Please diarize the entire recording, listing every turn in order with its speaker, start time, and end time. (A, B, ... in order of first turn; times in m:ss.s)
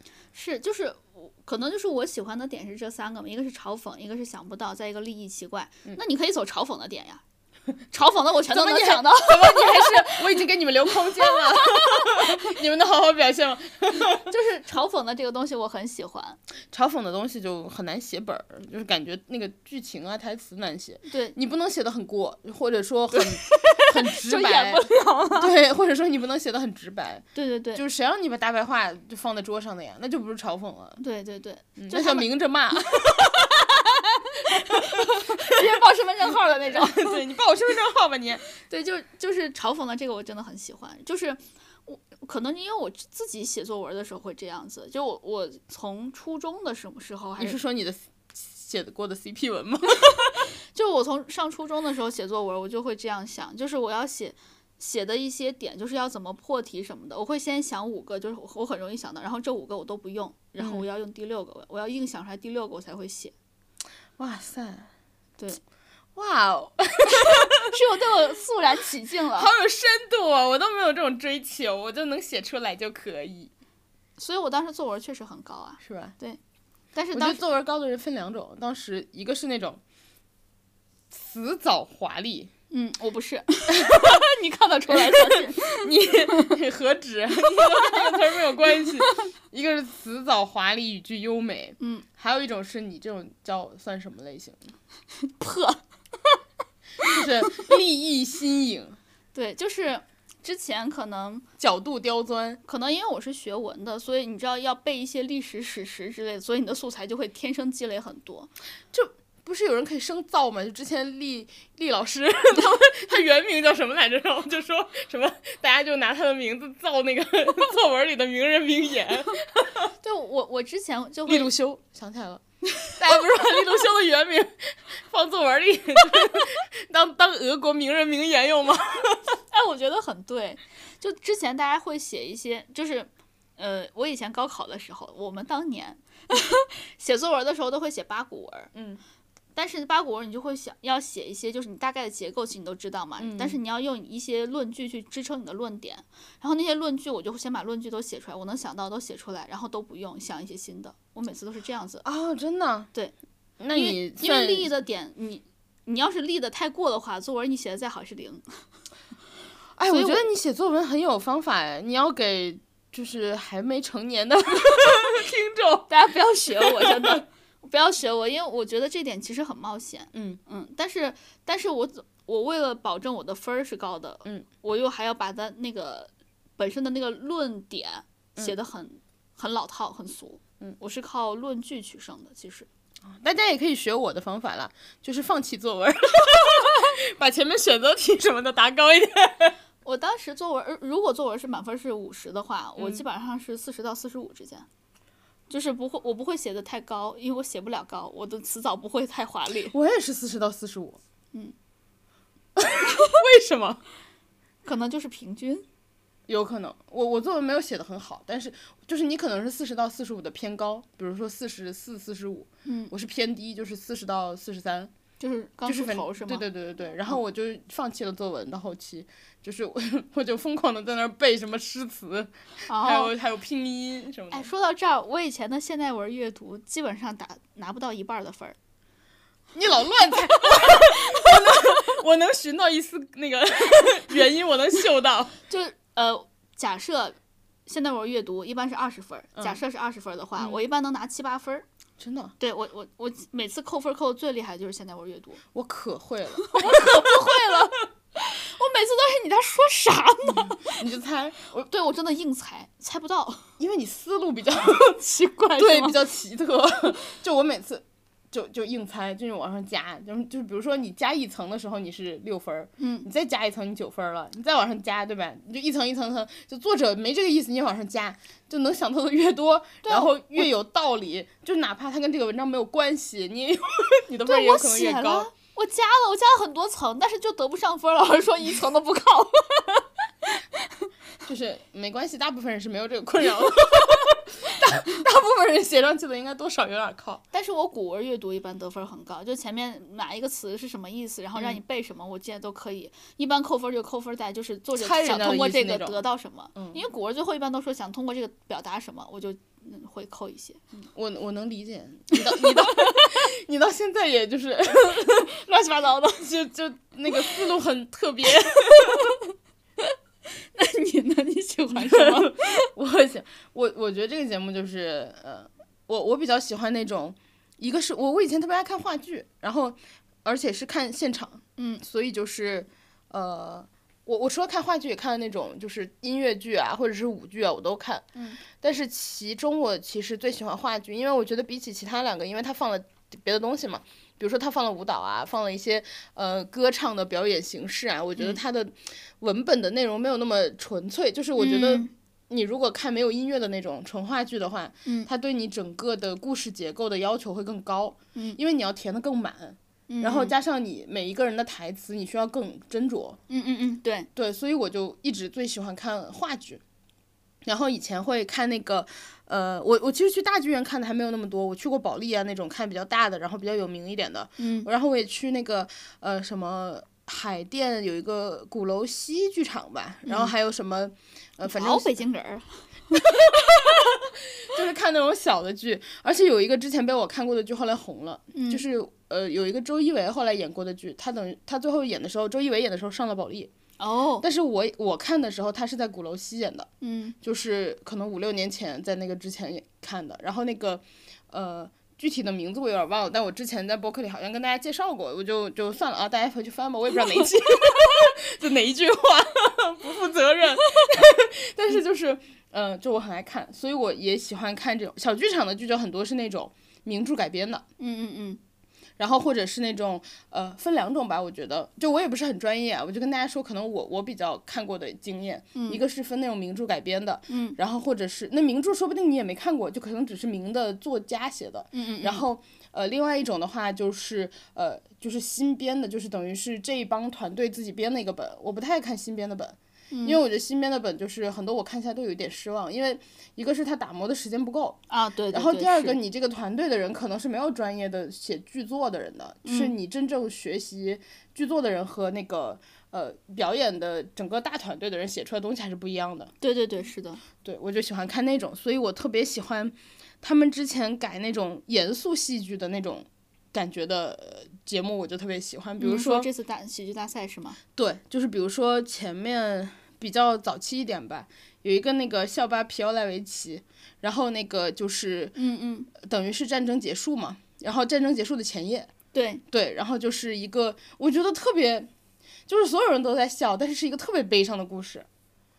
0:00.3-0:07.2 A
0:07.9-0:10.4 A
0:08.5-0:14.3 B
0:10.9-0:12.4 A
0:14.2-0:16.4 A
0:16.7-0:31.0 B
0:21.1-0:21.4 A
0:23.2-0:25.5 A
0:27.4-0:27.8 A
0:31.0-0:32.3 A
0:31.8-0:33.5 B
0:32.9-0:37.2 A
0:34.5-0:35.6 B
0:36.7-0:38.4 B
0:38.6-0:47.6 A
0:47.4-0:50.2 B
0:50.7-1:03.3 A
1:00.6-1:00.8 B
1:04.2-1:04.9 B
1:06.2-1:07.8 B
1:07.1-1:09.5 A
1:09.3-1:13.5 B
1:14.2-1:16.4 A
1:15.8-1:16.1 B
1:17.0-1:17.4 A
1:17.1-1:19.8 B
1:21.1-1:22.5 B
1:22.7-1:26.6 A
1:23.8-1:24.2 B
1:24.9-1:34.6 B
1:27.6-1:28.1 A
1:28.7-1:29.1 A
1:31.8-1:32.0 A
1:35.2-1:36.4 A
1:37.0-1:37.6 A
1:37.0-1:39.0 B
1:39.3-1:41.5 A
1:41.6-1:42.6 B
1:42.6-1:48.5 A
1:48.9-1:59.9 B
2:00.0-2:01.5 A
2:01.3-2:02.4 B
2:02.9-2:09.2 B
2:09.5-2:18.7 A
2:18.7-2:19.0 B
2:19.6-2:32.0 A
2:23.2-2:23.6 B
2:32.0-2:32.9 B
2:33.6-2:34.7 B
2:33.7-2:38.6 A
2:39.8-2:45.9 B
2:39.9-2:40.3 A
2:45.9-3:02.7 A
2:46.5-2:47.2 B
2:50.1-2:50.4 B
3:03.0-3:09.6 B
3:09.8-3:14.7 A
3:15.5-3:19.7 A
3:19.7-3:21.0 B
3:22.6-3:23.8 B
3:24.6-3:25.7 A
3:26.3-3:34.9 B
3:32.7-3:32.9 A
3:35.2-3:36.5 A
3:35.6-3:44.5 B
3:42.7-3:43.1 A
3:44.3-3:48.6 A
3:49.5-3:55.3 B
3:50.1-3:51.7 A
3:55.5-4:01.7 A
3:59.4-3:59.6 B
4:02.0-4:02.4 B
4:02.4-4:05.4 A
4:05.5-4:07.6 B
4:06.4-4:10.8 A
4:10.4-4:11.7 B
4:11.5-4:13.5 A
4:13.6-4:15.0 B
4:14.6-4:16.0 A
4:15.6-4:35.3 B
4:22.8-4:23.1 A
4:29.8-4:30.5 A
4:34.3-4:40.8 A
4:41.3-4:47.2 B
4:47.3-5:00.6 A
4:54.8-4:56.0 B
5:00.8-5:05.3 B
5:02.1-5:03.2 A
5:05.2-5:06.3 A
5:06.2-5:09.2 B
5:08.6-5:09.2 A
5:10.5-5:12.7 A
5:11.7-5:53.2 B
5:21.6-5:21.8 A
5:41.4-5:41.9 A
5:49.9-5:50.4 A
5:53.3-5:54.1 A
5:54.2-5:56.6 B
5:57.4-6:12.0 B
6:04.4-6:04.7 A
6:10.0-6:10.3 A
6:11.4-6:13.9 A
6:13.0-6:23.5 B
6:18.3-6:18.6 A
6:23.8-6:24.3 A
6:24.2-6:26.7 B
6:26.8-6:27.2 A
6:27.2-6:47.6 B
6:47.8-6:48.4 A
6:49.0-7:14.8 B
6:55.6-6:55.8 A
6:57.3-6:57.6 A
7:01.7-7:02.2 A
7:09.9-7:10.2 A
7:14.9-7:16.0 A
7:15.3-7:26.3 B
7:19.4-7:19.7 A
7:26.4-7:27.2 A
7:27.4-7:36.3 B
7:35.8-7:37.6 A
7:37.8-7:45.4 B
7:45.4-7:45.9 A
7:46.0-7:48.9 B
7:49.1-7:49.4 A
7:49.5-7:51.9 B
7:52.5-7:55.1 B